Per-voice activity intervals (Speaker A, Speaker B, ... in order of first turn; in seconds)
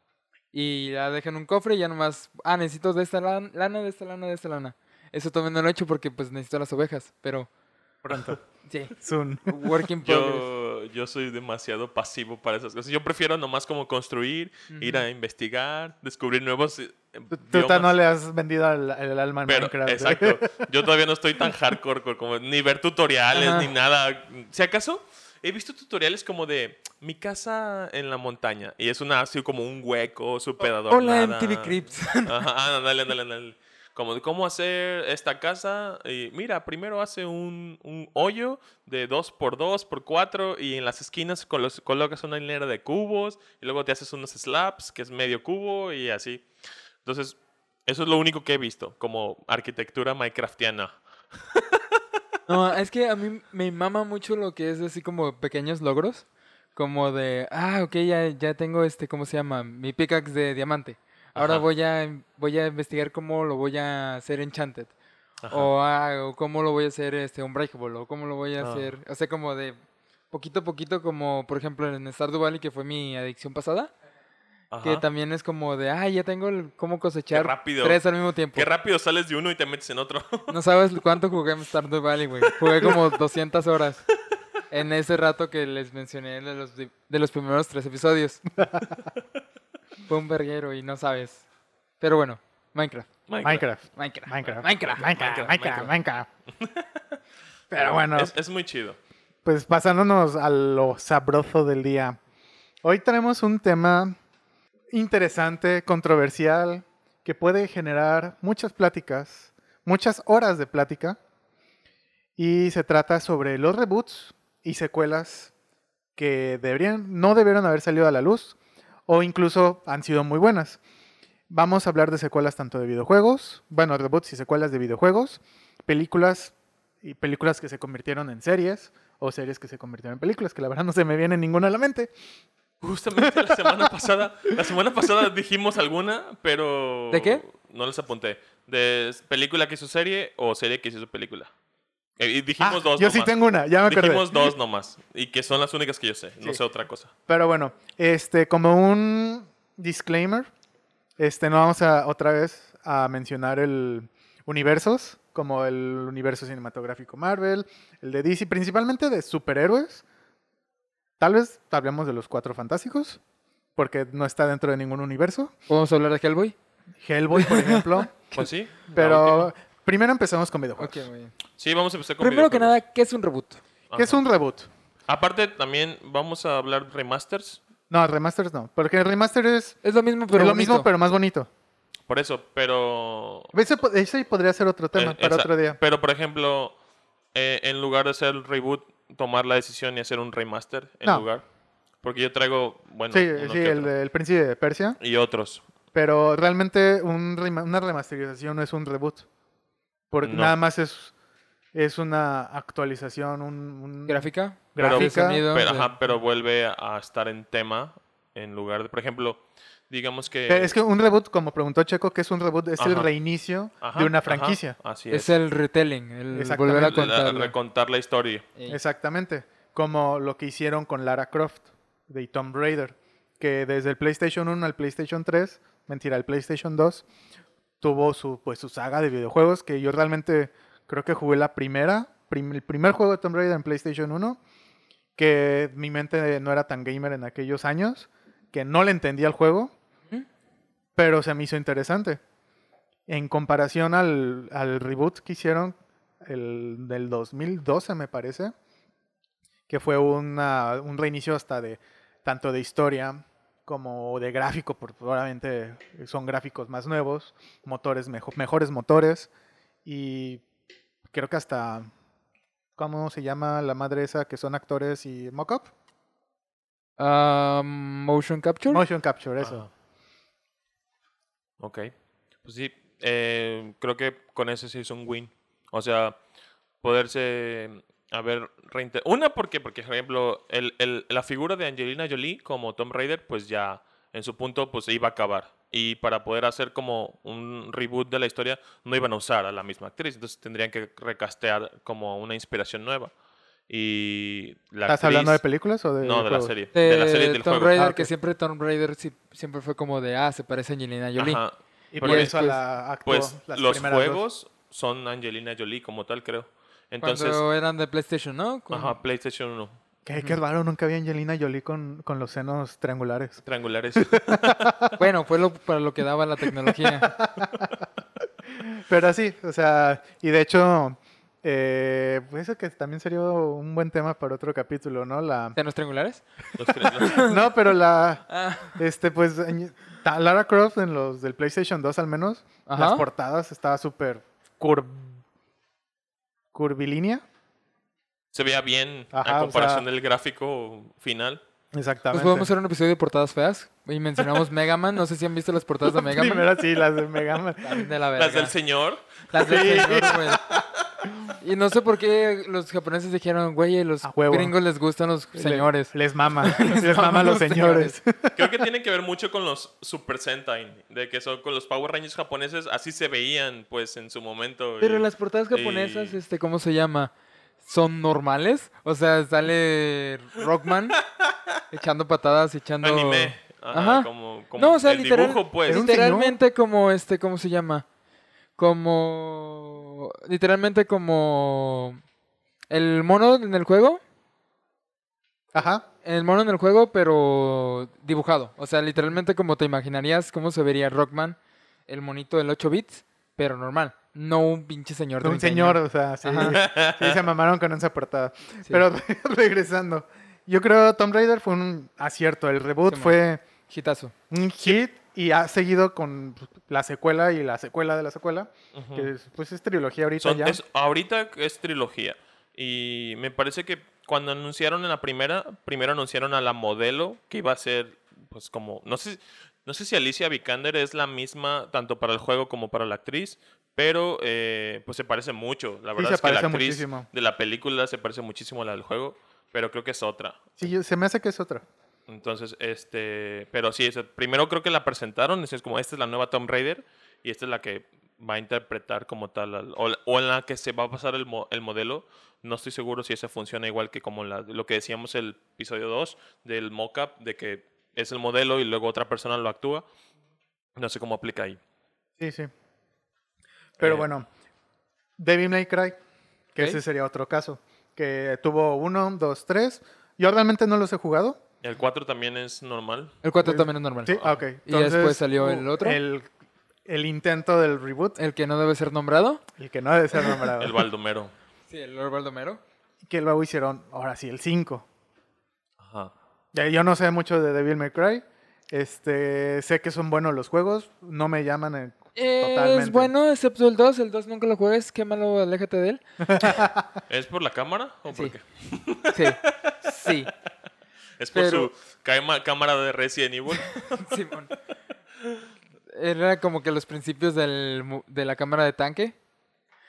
Speaker A: 0.5-7.5, 8.7-8.9, 9.5-10.5, 14.7-15.1, 23.3-23.7, 30.9-32.3, 52.5-64.9, 65.5-69.8, 70.3-73.9, 74.8-78.7, 80.5-84.1, 84.7-88.4, 90.1-91.4, 92.0-93.1, 94.0-95.0, 137.1-137.4, 165.7-166.6, 167.4-168.4, 170.8-171.3, 172.2-173.6, 179.8-180.9, 204.1-205.9, 215.1-217.5, 267.0-268.8, 296.8-301.4, 302.0-302.6, 307.0-308.9, 315.0-317.2, 325.6-326.2, 326.9-327.4, 328.3-328.8, 332.7-333.1, 342.1-346.5, 347.6-348.5, 349.3-350.4, 351.4-358.0, 364.8-371.0, 371.7-377.9, 378.6-382.0, 382.7-384.0, 386.1-391.4, 391.9-396.6, 402.9-404.1, 463.2-466.0, 468.2-469.4, 471.7-472.6, 482.2-486.6, 489.1-490.3, 491.3-491.7, 493.6-494.5, 495.9-499.1
Speaker B: 8.0-8.4, 9.0-9.6, 17.3-20.6, 93.4-96.3, 97.7-98.3, 99.5-102.2, 102.8-104.2, 104.9-111.2, 112.4-115.5, 116.2-120.8, 121.5-132.1, 133.2-133.9, 142.6-144.5, 147.3-150.5, 151.2-160.0, 161.2-163.2, 163.8-165.5, 167.0-168.3, 168.9-171.0, 173.9-174.7, 177.9-179.8, 180.3-181.5, 183.5-185.8, 193.1-195.0, 195.9-199.3, 200.1-201.1, 201.7-205.4, 210.5-214.8, 216.3-217.0, 218.7-227.1, 227.8-234.4, 235.2-239.7, 241.0-242.2, 243.1-248.5, 249.7-259.3, 259.9-260.4, 261.1-261.9, 262.8-265.7, 268.7-269.6, 294.9-296.5, 297.8-298.1, 301.9-304.2, 310.1-313.4, 314.0-314.9, 317.0-317.7, 318.6-325.6, 327.1-335.2, 336.5-337.2, 339.1-339.9, 341.7-342.5, 345.9-347.9, 349.4-350.2, 354.0-354.6, 355.3-358.5, 375.7-376.4, 385.5-385.9, 395.2-403.4, 404.3-410.6, 426.0-427.1, 430.6-431.6, 452.2-452.5, 453.8-454.3, 455.2-456.0, 456.6-461.4, 463.4-466.3, 466.9-468.2, 469.6-470.8, 473.1-474.9, 476.5-483.1, 486.2-487.0
Speaker C: 10.0-17.9, 19.5-46.5, 47.0-52.0, 61.4-61.6, 65.4-65.7, 68.6-68.9, 74.7-75.0, 77.3-78.0, 78.5-80.5, 93.3-93.7, 94.5-95.9, 96.5-97.2, 97.7-99.0, 132.8-141.5, 142.2-147.1, 168.3-169.5, 171.6-172.8, 173.9-174.2, 175.1-177.6, 182.1-183.5, 184.9-186.8, 187.3-191.4, 192.0-193.9, 195.0-195.6, 200.2-200.5, 204.8-210.8, 212.8-213.1, 213.8-215.3, 216.7-218.5, 269.4-269.7, 271.6-271.9, 272.4-276.2, 276.8-293.1, 293.7-295.4, 296.0-297.9, 301.2-302.4, 303.1-307.4, 308.7-309.8, 313.4-314.9, 326.6-327.3, 338.3-341.4, 348.2-350.8, 358.3-366.2, 372.8-375.9, 396.4-397.2, 408.7-409.1, 410.2-430.7, 432.1-449.8, 450.8-451.6, 453.8-454.1, 461.6-463.2, 470.6-471.3, 475.8-476.1, 487.1-490.1, 491.2-494.1